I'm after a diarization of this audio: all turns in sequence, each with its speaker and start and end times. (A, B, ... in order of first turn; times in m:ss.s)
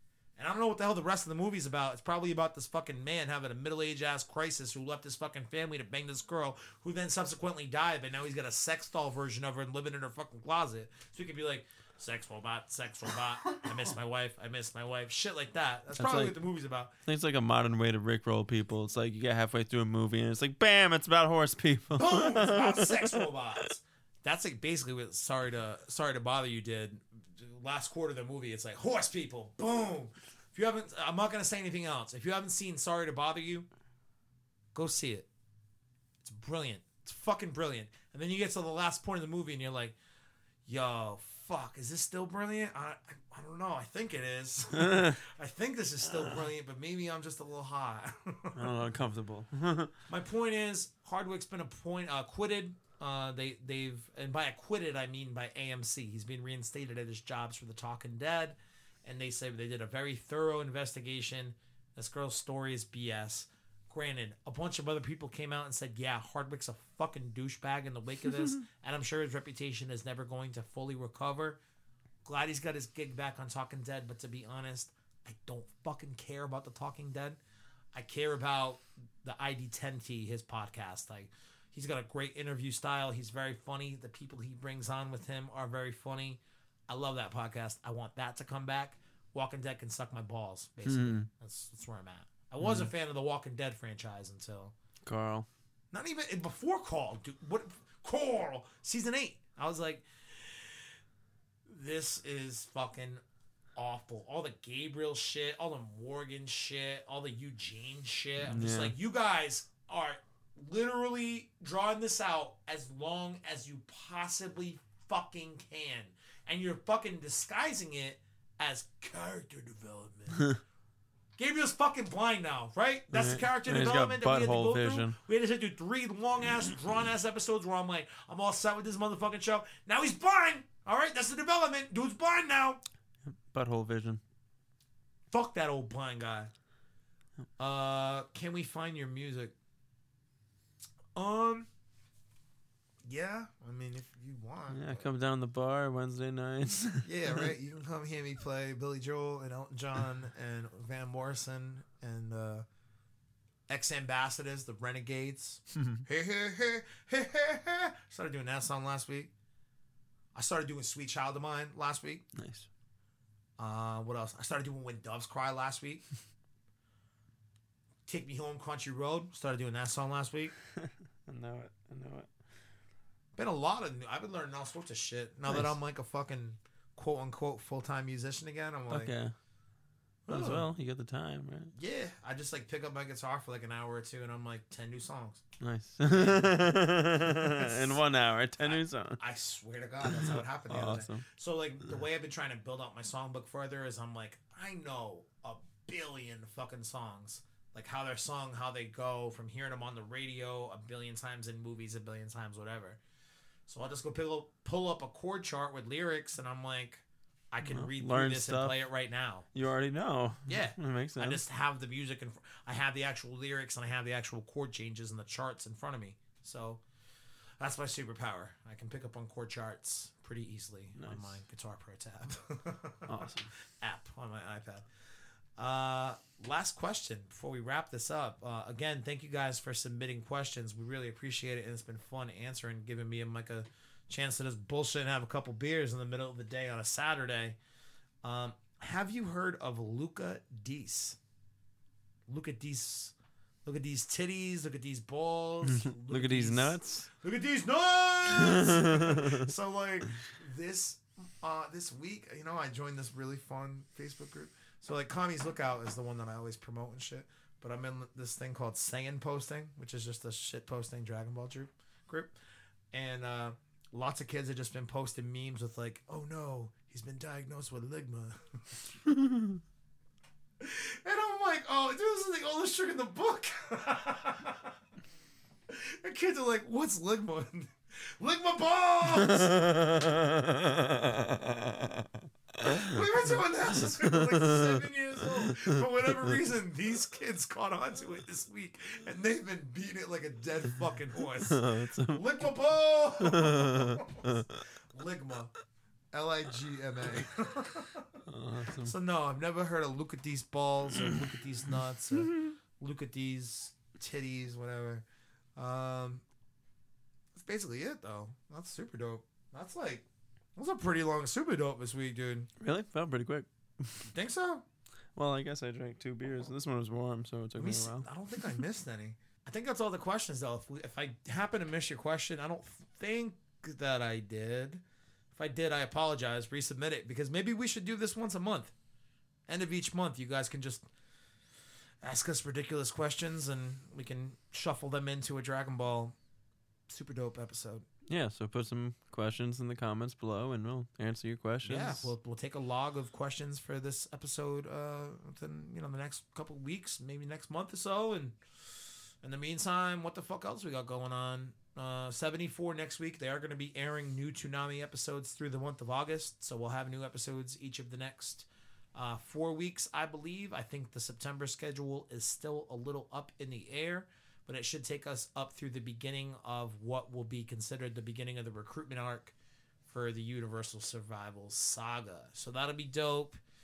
0:00.4-0:16.9 A
0:16.0-0:16.4 B
0:17.1-0:23.2 B
0:21.9-0:33.7 A
0:34.7-0:35.3 A
0:36.2-0:40.0 A
0:40.7-0:48.7 A
0:44.8-0:45.2 B
0:48.5-0:49.9 B
0:50.1-1:11.6 A
1:12.2-1:17.4 A
1:17.9-1:34.7 A
1:30.9-1:31.3 B
1:32.6-1:32.9 B
1:35.0-1:35.5 B
1:35.9-1:41.0 A
1:41.7-1:43.2 A
1:43.8-2:00.5 A
1:48.4-1:48.9 B
2:01.4-2:12.8 A
2:03.1-2:05.2 B
2:13.2-2:14.2 B
2:15.3-2:16.5 A
2:17.6-2:19.5 A
2:21.2-2:21.7 A
2:23.0-2:25.1 A
2:24.7-2:27.5 B
2:27.0-2:32.7 A
2:33.7-2:39.3 A
2:35.8-2:36.0 B
2:40.3-2:42.2 A
2:42.4-2:42.7 B
2:43.6-2:46.0 A
2:48.1-2:50.6 A
2:51.3-2:52.3 B
2:53.4-2:59.1 A
2:58.9-2:59.3 B
3:00.3-3:00.7 A
3:00.3-3:01.7 B
3:01.7-3:05.4 A
3:05.6-3:09.2 B
3:06.1-3:08.0 A
3:08.6-3:23.0 A
3:10.0-3:11.3 B
3:23.7-3:29.5 A
3:27.6-3:28.8 B
3:29.5-3:31.4 B
3:30.5-3:36.8 A
3:37.6-3:44.9 A
3:41.0-3:41.4 B
3:43.1-3:43.5 B
3:45.6-3:57.6 A
3:58.2-4:01.2 A
4:02.3-4:22.4 A
4:05.7-4:07.1 B
4:08.4-4:09.5 B
4:22.9-4:28.9 A
4:30.6-4:34.8 A
4:35.7-4:39.8 A
4:39.3-4:42.1 B
4:42.6-4:42.9 B
4:42.6-4:55.5 A
4:44.1-4:44.7 B
4:45.4-4:45.8 B
4:51.5-4:52.5 B
4:53.2-4:54.6 B
4:56.1-4:58.2 A
4:58.3-4:58.9 B
4:58.8-5:05.0 A
5:02.2-5:02.5 B
5:05.6-5:06.2 A
5:07.3-5:10.0 A
5:10.6-5:12.5 A
5:12.6-5:14.1 B
5:14.1-5:14.7 A
5:15.2-5:18.6 B
5:17.6-5:24.8 A
5:25.3-5:28.7 A
5:29.5-5:30.9 A
5:32.0-5:36.2 A
5:36.9-5:37.9 A
5:38.1-5:42.1 B
5:41.6-5:48.4 A
5:49.1-6:09.4 A
6:09.9-6:13.4 A